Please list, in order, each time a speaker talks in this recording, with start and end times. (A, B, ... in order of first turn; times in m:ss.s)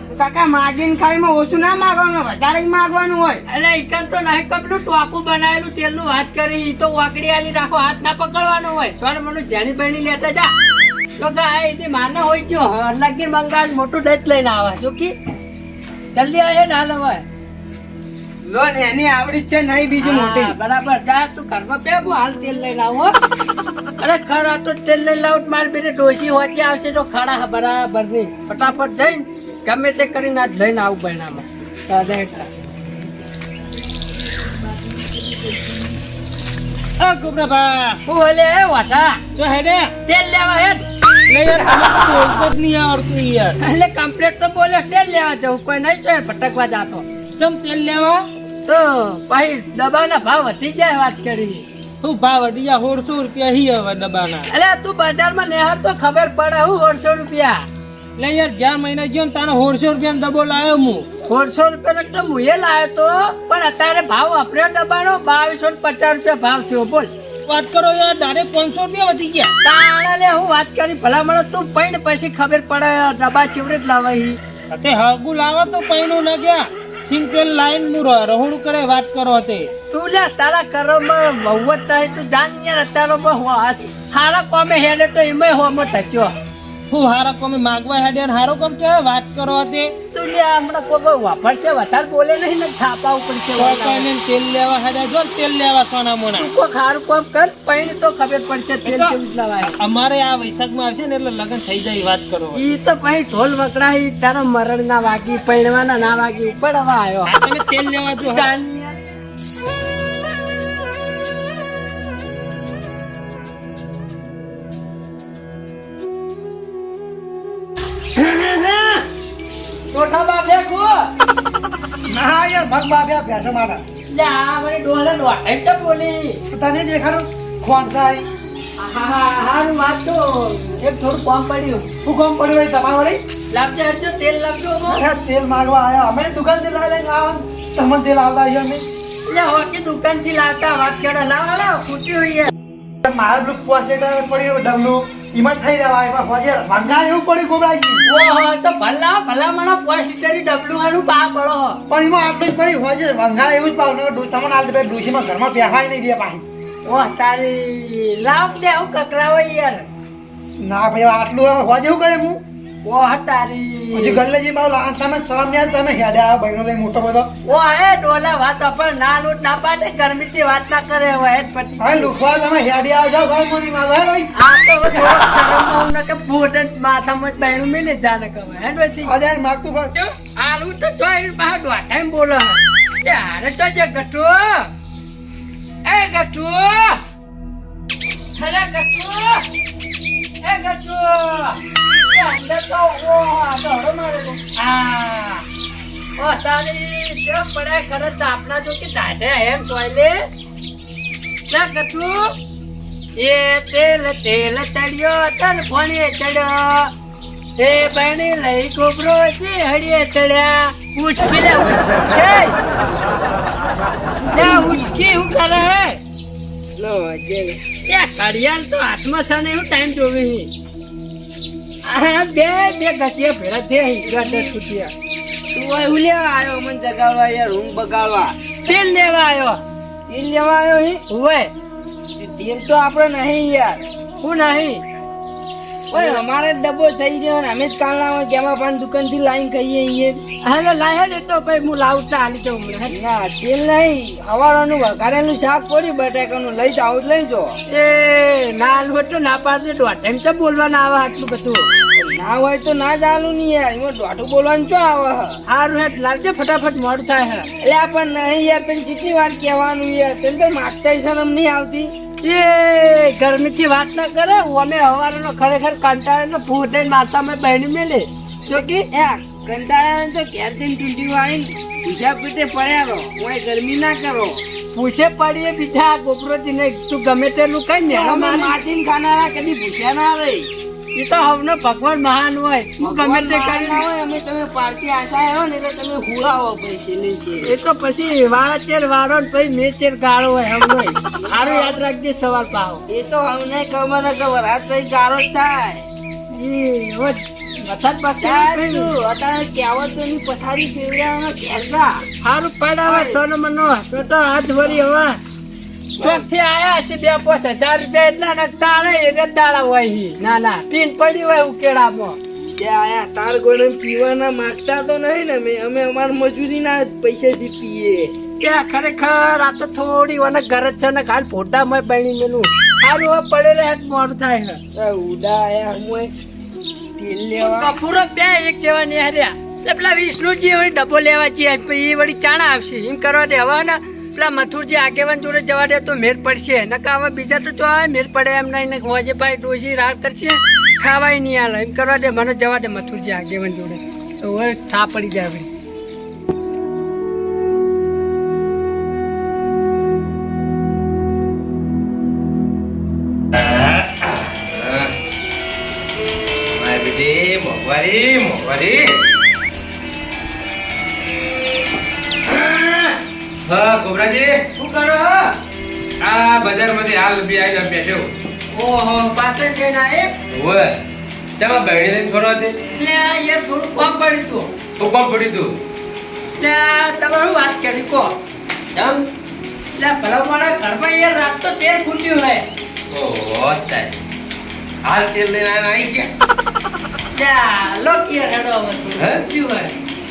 0:00.1-0:03.4 A
0:03.5-0:10.5 B
0:11.2-0:15.1 B
0:16.2-0:17.2 B
0:18.4-0:20.6 A
0:20.0-0:23.1 B
0:24.0-0:32.5 B
0:37.0-0:38.0 C
0:38.1-0:39.2 B
0:39.4-0:39.9 C
0:40.1-0:40.8 B
0:41.3-0:43.6 C
0:43.6-0:47.0 B
0:47.4-0:48.2 C
0:48.7-0:51.6 B
0:52.0-0:54.5 C
0:54.5-0:57.6 B
0:58.2-1:01.1 C
1:01.3-1:07.1 B
1:07.5-1:09.5 C
1:09.6-1:14.4 B
1:14.7-1:19.7 C
1:19.9-1:26.3 B
1:26.9-1:29.9 C
1:30.1-1:34.1 B
1:33.6-1:36.5 C
1:36.4-1:39.7 B
1:38.8-1:39.2 C
1:39.8-1:42.8 C
1:42.5-1:47.4 B
1:47.2-1:48.5 C
1:48.2-1:49.0 B
1:58.1-1:59.1 B
1:59.9-2:01.1 B
2:02.1-2:03.8 D
2:04.1-2:06.4 B
2:06.5-2:08.2 D
2:08.8-2:11.9 B
2:12.0-2:13.2 D
2:13.5-2:15.0 B
2:14.9-2:18.8 D
2:19.3-2:22.5 B
2:23.0-2:28.0 D
2:28.1-2:31.8 B
2:31.9-2:36.4 D
2:36.9-2:39.8 B
2:40.6-2:42.4 D
2:42.8-2:44.2 B
2:44.0-2:47.3 D
2:47.4-2:52.1 B
2:51.8-2:54.3 D
2:54.4-2:59.2 B
2:59.0-2:59.9 D
2:59.9-3:04.7 B
3:05.8-3:07.0 B
3:08.4-3:09.5 B
3:10.4-3:15.5 B
3:16.2-3:20.2 B
3:21.5-3:22.3 B
3:23.2-3:26.9 B
3:27.6-3:32.6 B
3:34.3-3:36.0 B
3:36.8-3:37.6 A
3:37.9-3:40.5 B
3:41.9-3:44.9 B
3:44.2-3:44.5 A
3:45.5-3:48.4 A
3:48.6-3:49.6 B
3:50.1-3:51.0 A
3:51.1-3:51.5 B
3:52.1-3:53.8 A
3:54.2-3:54.8 B
3:55.9-4:00.2 A
3:55.9-3:56.2 B
4:00.4-4:03.0 B
4:02.9-4:07.6 A
4:07.7-4:11.7 B
4:12.0-4:15.4 A
4:15.5-4:17.5 B
4:17.6-4:21.9 A
4:22.2-4:28.9 B
4:28.5-4:34.4 A
4:34.7-4:38.6 B
4:37.9-4:40.5 A
4:41.0-4:43.9 B
4:42.8-4:47.5 A
4:47.4-4:52.8 B
4:51.2-4:51.8 A
4:52.9-4:55.9 A
4:56.3-4:58.9 B
4:58.2-5:02.0 A
5:02.2-5:05.2 B
5:02.9-5:03.2 A
5:06.0-5:12.2 B
5:06.0-5:06.2 A
5:12.6-5:18.1 A
5:18.4-5:24.6 B
5:24.8-5:26.1 A
5:27.0-5:27.7 A
5:27.4-5:45.5 B
5:53.4-5:54.9 E
5:56.6-5:59.0 E
6:02.2-6:03.0 B
6:03.5-6:04.4 E
6:04.6-6:05.3 B
6:06.0-6:08.1 E
6:08.5-6:10.1 B
6:10.3-6:10.8 E
6:11.4-6:12.6 E
6:12.8-6:14.5 B
6:14.8-6:15.6 E
6:16.4-6:18.2 B
6:18.7-6:19.0 E
6:19.8-6:22.4 B
6:22.9-6:24.0 E
6:24.8-6:26.1 E
6:27.2-6:29.7 B
6:29.0-6:29.2 E